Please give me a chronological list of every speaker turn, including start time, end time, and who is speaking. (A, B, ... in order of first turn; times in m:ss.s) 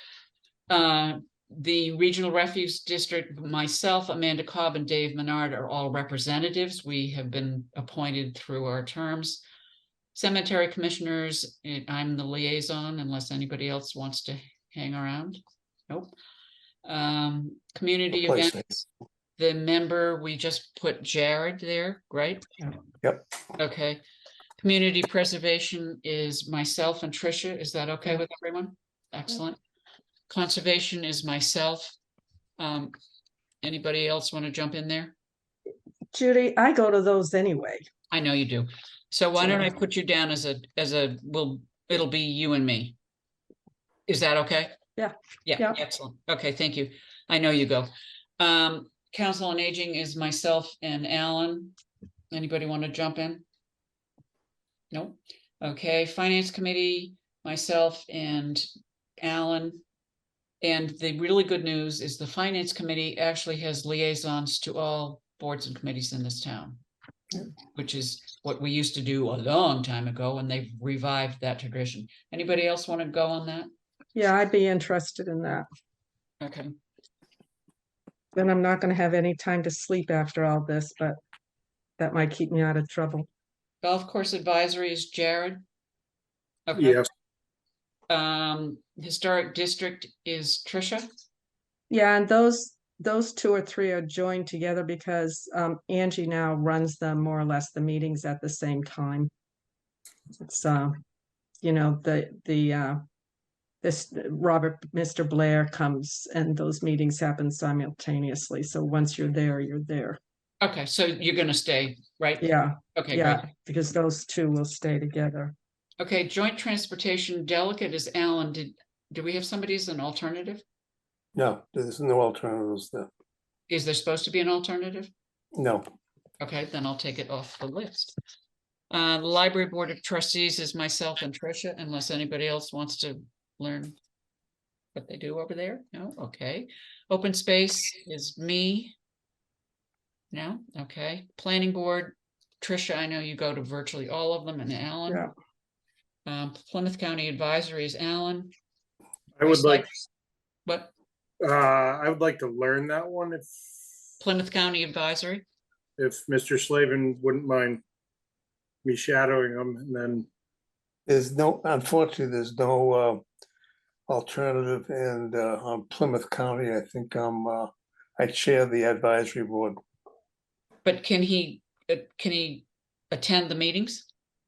0:00.7-0:09.4 A
0:10.1-0:16.1 A
0:16.8-0:18.8 A
0:18.2-0:18.6 B
0:19.4-0:22.4 A
0:23.6-0:24.0 A
0:24.6-0:29.6 A
0:30.3-0:32.0 A
0:32.6-0:32.9 A
0:33.6-0:35.1 A
0:36.1-0:37.8 C
0:38.1-0:42.9 A
0:44.1-0:44.7 A
0:45.0-0:45.8 C
0:45.4-0:51.7 A
0:52.3-0:53.4 A
0:54.9-0:58.7 A
0:59.2-0:59.8 A
1:00.6-1:06.8 A
1:07.7-1:13.7 A
1:14.1-1:15.6 C
1:16.4-1:16.7 A
1:18.3-1:21.2 C
1:22.0-1:23.3 C
1:23.8-1:25.6 A
1:26.7-1:27.0 A
1:26.8-1:27.0 D
1:28.1-1:31.1 A
1:31.9-1:39.3 C
1:40.4-1:40.9 C
1:41.6-1:43.0 C
1:43.8-1:50.2 C
1:50.6-1:53.4 A
1:52.4-1:55.5 C
1:56.0-2:00.6 A
2:01.3-2:03.1 B
2:03.7-2:05.1 A
2:05.5-2:05.8 B
2:06.4-2:08.1 A
2:08.9-2:14.0 A
2:14.9-2:19.0 A
2:20.3-2:25.2 A
2:26.2-2:28.5 A
2:29.4-2:29.8 D
2:29.4-2:30.0 A
2:30.6-2:30.9 A
2:31.4-2:33.5 D
2:34.2-2:35.4 A
2:36.0-2:37.8 D
2:38.8-2:40.2 D
2:41.1-2:43.2 B
2:44.1-2:49.8 B
2:50.8-2:54.1 A